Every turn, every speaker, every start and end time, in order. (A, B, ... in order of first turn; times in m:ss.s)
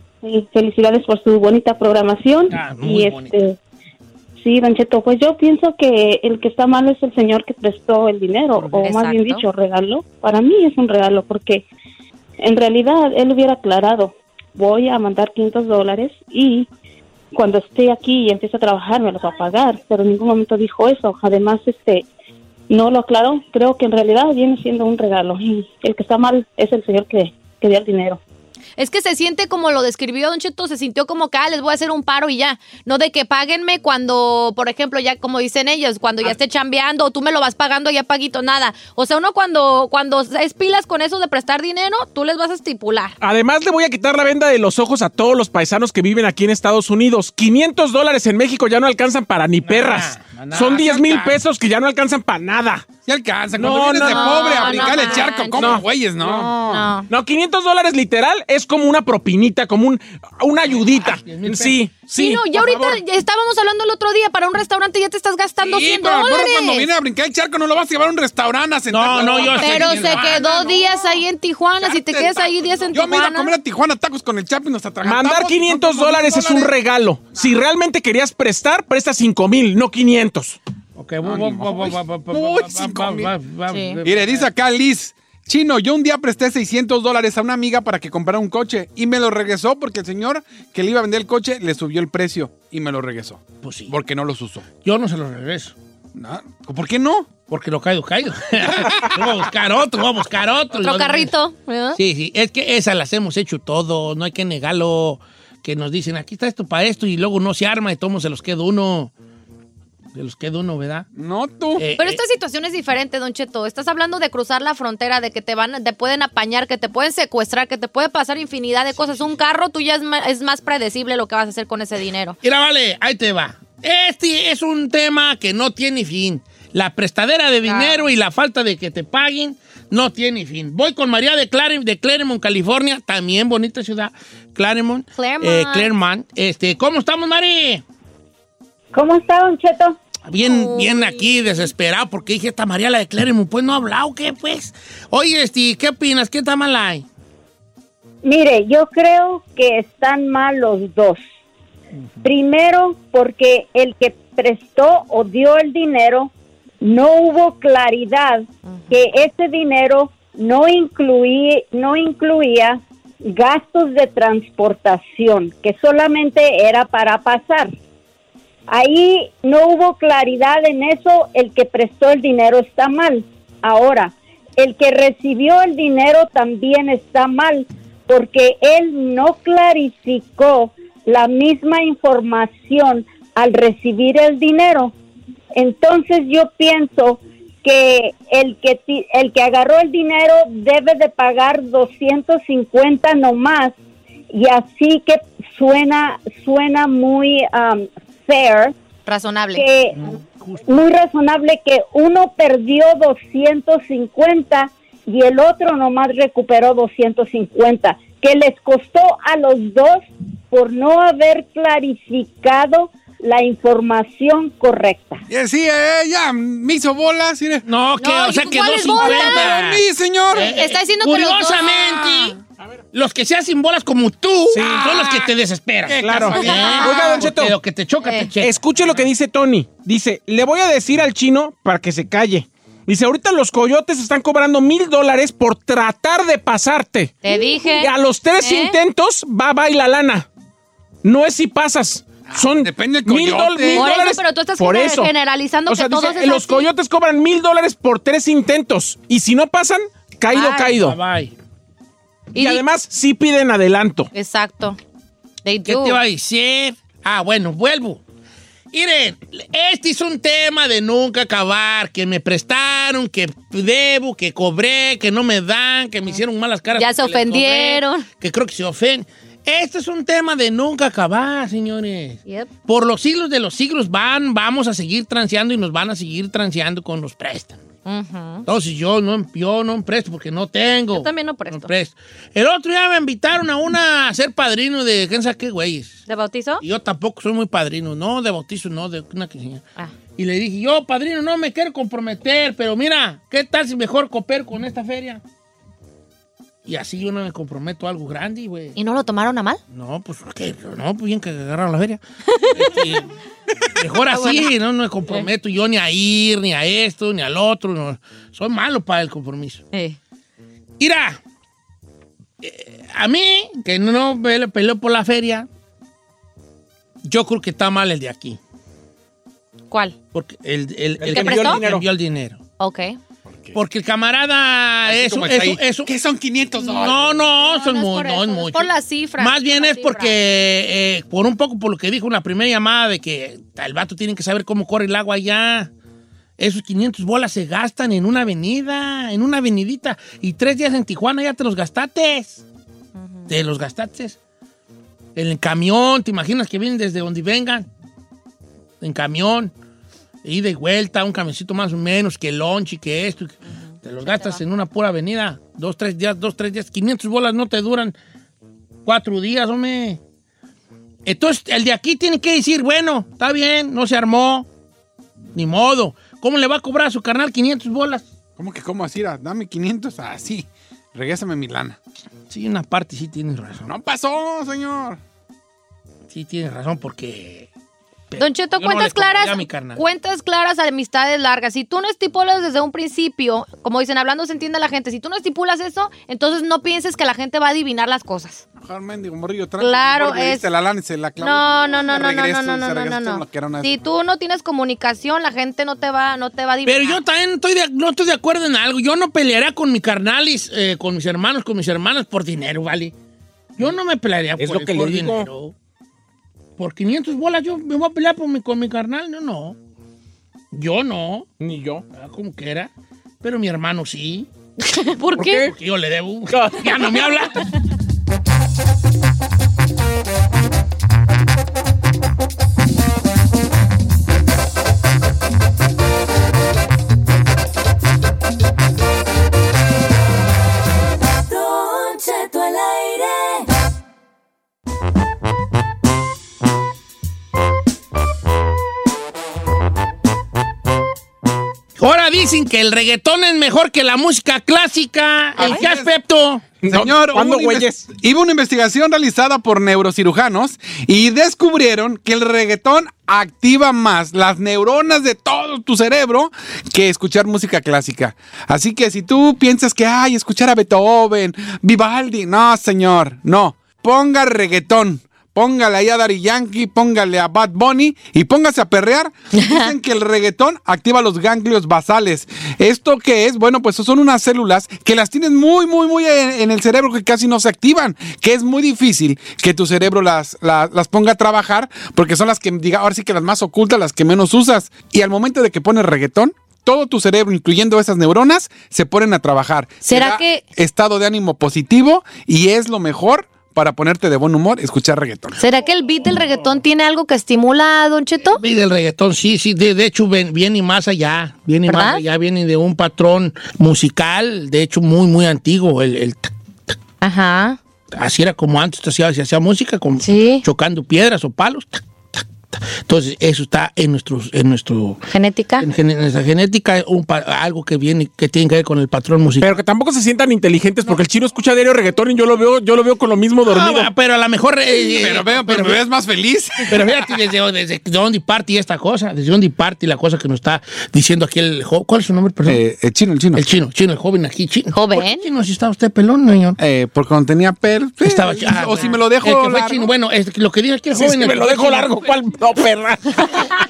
0:00.2-0:03.6 A
0:02.5-0:03.3 B
0:04.4-0:11.6 A
0:08.6-0:08.8 B
0:08.8-0:09.4 C
0:12.4-0:16.7 A
0:17.3-0:22.0 A
0:22.7-0:28.2 A
0:28.8-0:43.2 C
0:43.2-0:52.9 D
0:49.6-0:51.4 B
0:53.0-0:56.9 E
0:53.5-0:55.8 D
0:54.0-0:57.1 C
0:57.1-1:03.0 D
1:00.7-1:01.8 B
1:02.1-1:06.9 C
1:05.6-1:11.0 E
1:08.9-1:10.5 B
1:09.3-1:13.5 C
1:11.8-1:16.7 E
1:15.0-1:20.6 D
1:21.0-1:24.5 B
1:21.2-1:23.3 E
1:23.7-1:24.0 C
1:24.0-1:34.6 E
1:33.6-1:33.9 B
1:34.8-1:35.7 B
1:36.1-1:37.3 E
1:37.5-1:41.3 B
1:38.7-1:39.1 E
1:40.7-1:42.0 C
1:41.9-1:49.1 B
1:50.1-1:51.1 B
1:51.1-1:51.8 E
1:51.8-1:52.2 B
1:52.0-2:02.4 C
2:02.4-2:17.8 B
2:07.6-2:08.1 C
2:15.2-2:15.9 C
2:18.9-2:20.0 F
2:20.3-2:27.0 B
2:20.4-2:21.6 C
2:28.2-2:31.2 F
2:32.2-2:36.3 F
2:36.8-2:47.7 F
2:38.7-2:39.0 C
2:48.7-3:04.9 F
3:05.5-3:13.7 F
3:14.3-3:18.7 F
3:19.0-3:19.6 C
3:19.5-3:20.0 F
3:19.9-3:20.8 B
3:20.7-3:35.2 F
3:35.3-3:37.6 E
3:37.6-3:42.4 B
3:38.0-3:39.6 C
3:38.9-3:40.5 E
3:40.3-3:41.7 C
3:41.8-3:42.3 E
3:42.9-3:49.0 B
3:44.5-3:45.1 D
3:45.9-3:47.5 D
3:46.4-3:47.2 C
3:48.4-3:57.1 D
3:57.2-3:58.8 C
3:57.7-4:00.3 D
4:01.0-4:05.1 D
4:02.3-4:03.9 E
4:03.7-4:06.7 C
4:05.7-4:11.0 D
4:10.3-4:10.7 C
4:10.4-4:11.3 B
4:12.3-4:12.6 C
4:12.4-4:14.1 D
4:14.1-4:14.8 C
4:15.4-4:16.0 C
4:15.6-4:18.0 B
4:18.7-4:37.6 B
4:26.8-4:28.0 C
4:37.8-4:38.4 C
4:38.4-4:46.0 B
4:40.9-4:41.7 C
4:46.1-4:46.6 C
4:46.6-4:49.6 B
4:50.2-4:55.2 B
4:56.6-4:58.8 B
4:58.8-4:59.6 C
4:59.7-5:03.1 B
5:02.3-5:02.8 C
5:03.8-5:09.6 B
5:04.1-5:04.5 C
5:09.7-5:10.0 C
5:10.8-5:11.2 B
5:12.4-5:15.5 B
5:17.0-5:18.4 B
5:20.1-5:22.4 B
5:21.0-5:21.6 C
5:21.0-5:21.8 D
5:22.6-5:23.0 C
5:23.5-5:25.9 B
5:24.8-5:27.2 E
5:26.6-5:35.7 B
5:27.3-5:30.2 C
5:36.4-5:42.4 B
5:43.0-5:43.2 C
5:43.3-5:44.2 B
5:45.2-5:47.6 B
5:48.8-5:49.5 B
5:50.2-5:57.9 B
5:54.0-5:54.4 C
5:58.8-6:00.0 B
6:01.0-6:04.5 B
6:05.3-6:08.0 B
6:08.4-6:11.8 E
6:12.3-6:13.7 B
6:13.6-6:15.0 E
6:16.1-6:17.5 B
6:18.1-6:19.8 B
6:18.2-6:28.4 C
6:28.6-6:33.7 E
6:29.6-6:30.5 C
6:31.2-6:37.0 C
6:36.6-6:42.9 B
6:43.6-6:45.5 B
6:44.4-6:45.3 D
6:46.6-6:49.6 B
6:50.5-6:51.3 B
6:51.4-6:51.8 D
6:51.9-6:52.7 B
6:53.2-6:54.3 B
6:54.6-6:55.5 C
6:55.2-6:55.5 D
6:55.2-6:57.4 B
6:56.3-6:57.0 D
7:11.3-7:13.5 G
7:21.8-7:26.4 B
7:25.4-7:25.9 E
7:26.6-7:27.9 D
7:26.6-8:15.4 E
7:49.4-7:49.7 C
8:09.8-8:10.4 C
8:15.4-8:18.4 C
8:18.3-8:26.7 B
8:21.7-8:22.0 C
8:27.0-8:27.6 C
8:27.9-8:35.1 B
8:30.0-8:30.4 C
8:35.1-8:35.6 C
8:35.6-8:39.6 B
8:39.4-8:43.9 D
8:43.5-8:45.8 B
8:44.9-8:46.8 E
8:46.6-8:52.6 B
8:52.4-8:53.4 E
8:53.3-8:56.6 B
8:54.7-8:55.2 C
8:56.6-8:59.9 E
8:58.0-9:02.0 B
9:00.9-9:03.4 D